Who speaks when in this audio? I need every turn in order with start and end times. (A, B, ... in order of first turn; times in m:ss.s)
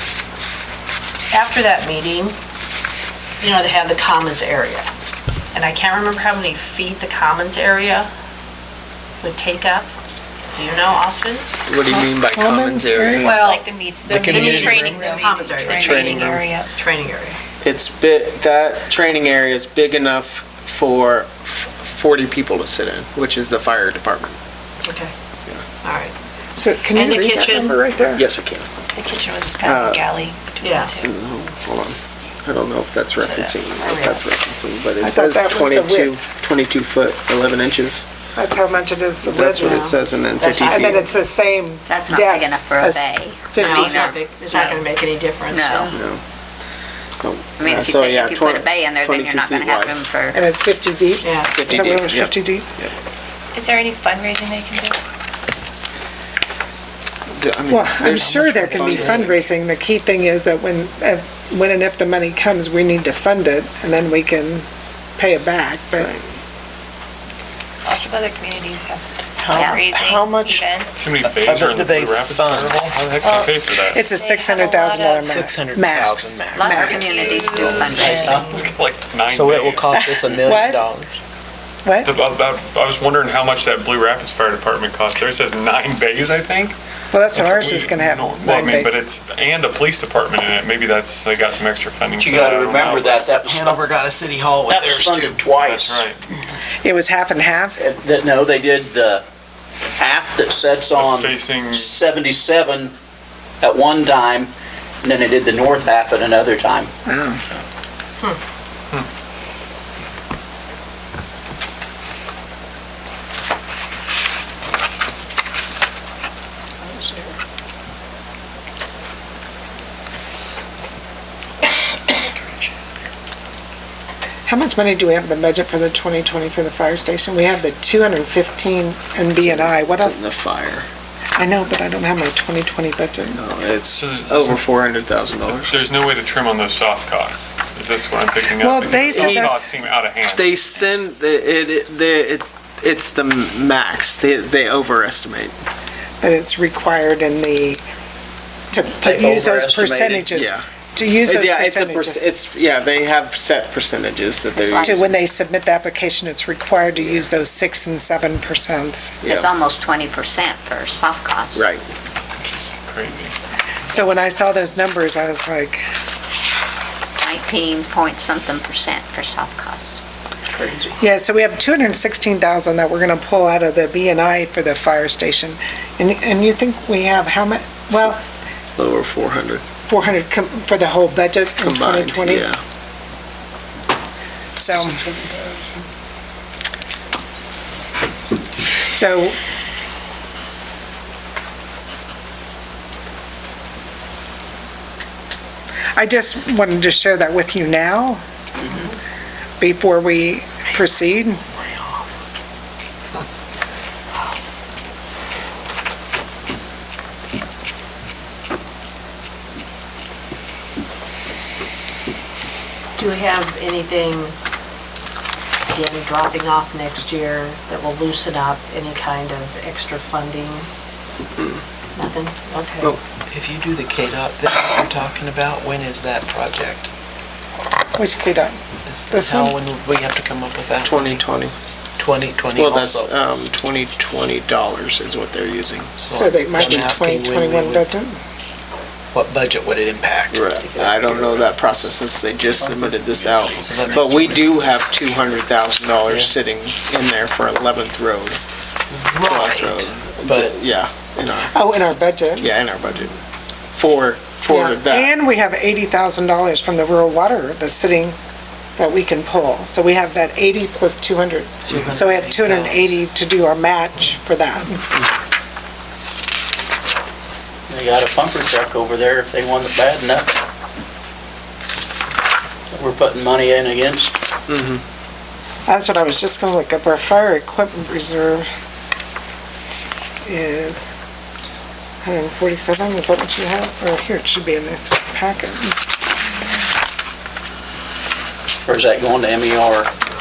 0:01.3-0:02.4 A
0:03.4-0:04.9 A
0:05.5-0:08.1 A
0:09.2-0:09.9 A
0:10.5-0:11.4 A
0:11.7-0:13.4 B
0:11.8-0:13.3 C
0:13.2-0:13.6 A
0:13.3-0:16.7 D
0:14.1-0:15.1 E
0:14.2-0:14.8 B
0:14.3-0:17.4 A
0:15.6-0:16.4 B
0:17.6-0:24.4 B
0:24.8-0:25.1 A
0:25.8-0:26.1 A
0:26.6-0:28.2 C
0:26.9-0:27.8 A
0:28.2-0:28.7 B
0:28.9-0:31.2 D
0:29.6-0:30.1 B
0:30.6-0:30.9 A
0:31.0-0:38.0 B
0:33.2-0:33.6 D
0:33.8-0:34.2 A
0:35.0-0:36.2 C
0:38.4-0:40.0 C
0:39.2-0:41.1 B
0:39.5-0:41.1 A
0:40.7-0:44.2 C
0:41.9-0:44.2 F
0:43.6-0:45.9 A
0:45.5-0:45.9 F
0:45.9-0:46.2 B
0:47.2-0:50.0 B
0:47.6-0:50.4 F
0:50.3-0:52.7 C
0:51.2-0:51.5 A
0:51.5-0:52.9 B
0:53.5-0:55.0 D
0:57.4-0:59.4 B
0:57.7-1:04.6 C
0:58.0-0:59.3 E
1:05.2-1:06.1 C
1:06.0-1:06.3 B
1:07.8-1:11.4 D
1:09.4-1:10.7 B
1:09.6-1:09.8 F
1:11.0-1:14.0 G
1:11.2-1:12.9 E
1:13.2-1:15.5 D
1:13.9-1:17.2 C
1:15.2-1:18.4 E
1:16.5-1:18.5 F
1:16.6-1:18.7 D
1:17.8-1:18.6 H
1:18.0-1:20.0 G
1:19.3-1:21.1 E
1:19.9-1:20.9 C
1:21.8-1:22.1 C
1:22.0-1:26.8 G
1:27.1-1:29.0 C
1:27.3-1:33.3 G
1:32.2-1:33.8 H
1:33.3-1:35.6 E
1:34.7-1:36.0 H
1:35.5-1:36.2 G
1:36.8-1:37.8 C
1:37.8-1:39.2 H
1:40.0-1:42.9 H
1:40.9-1:42.0 G
1:43.6-1:44.5 H
1:45.0-1:46.9 H
1:47.0-1:47.4 C
2:04.4-2:10.2 C
2:09.4-2:10.9 B
2:11.4-2:13.4 C
2:13.4-2:15.7 B
2:13.9-2:14.7 G
2:15.7-2:20.6 G
2:18.6-2:19.6 C
2:19.0-2:19.6 B
2:20.2-2:25.5 B
2:26.2-2:27.8 C
2:28.7-2:32.2 C
2:29.0-2:30.3 H
2:30.3-2:30.6 B
2:31.2-2:35.2 B
2:34.6-2:35.0 F
2:34.8-2:39.2 C
2:39.2-2:39.5 B
2:39.2-2:41.7 F
2:41.5-2:41.8 B
2:42.4-2:43.3 G
2:43.9-2:45.8 C
2:47.2-2:50.0 F
2:50.5-2:50.9 E
2:51.0-2:58.2 C
2:58.8-2:59.6 B
2:59.9-3:02.5 C
3:01.6-3:02.6 B
3:04.6-3:05.0 C
3:04.7-3:05.6 B
3:08.9-3:09.4 C
3:16.0-3:18.2 C
3:19.6-3:21.4 C
3:33.0-3:34.4 A
3:35.7-3:40.7 A
3:42.0-3:42.9 A
3:43.3-3:46.9 E
3:48.0-3:48.6 C
3:48.9-3:51.2 E
3:49.1-3:49.6 C
3:50.8-3:51.5 B
3:52.0-3:53.1 E
3:52.5-3:55.9 B
3:56.0-3:57.9 E
3:56.1-3:58.2 C
3:59.1-4:00.4 E
4:00.3-4:08.4 B
4:00.6-4:01.6 H
4:02.6-4:03.3 H
4:03.5-4:05.2 E
4:08.9-4:10.6 E
4:09.2-4:11.5 B
4:11.5-4:12.5 C
4:12.4-4:13.2 B
4:13.7-4:15.1 B
4:14.5-4:18.2 C
4:18.8-4:24.8 C
4:21.6-4:23.0 E
4:27.7-4:30.3 H
4:32.7-4:34.2 H
4:34.5-4:34.8 B
4:35.7-4:38.5 C
4:40.2-4:40.9 C
4:42.0-4:45.8 C
4:48.6-4:49.9 H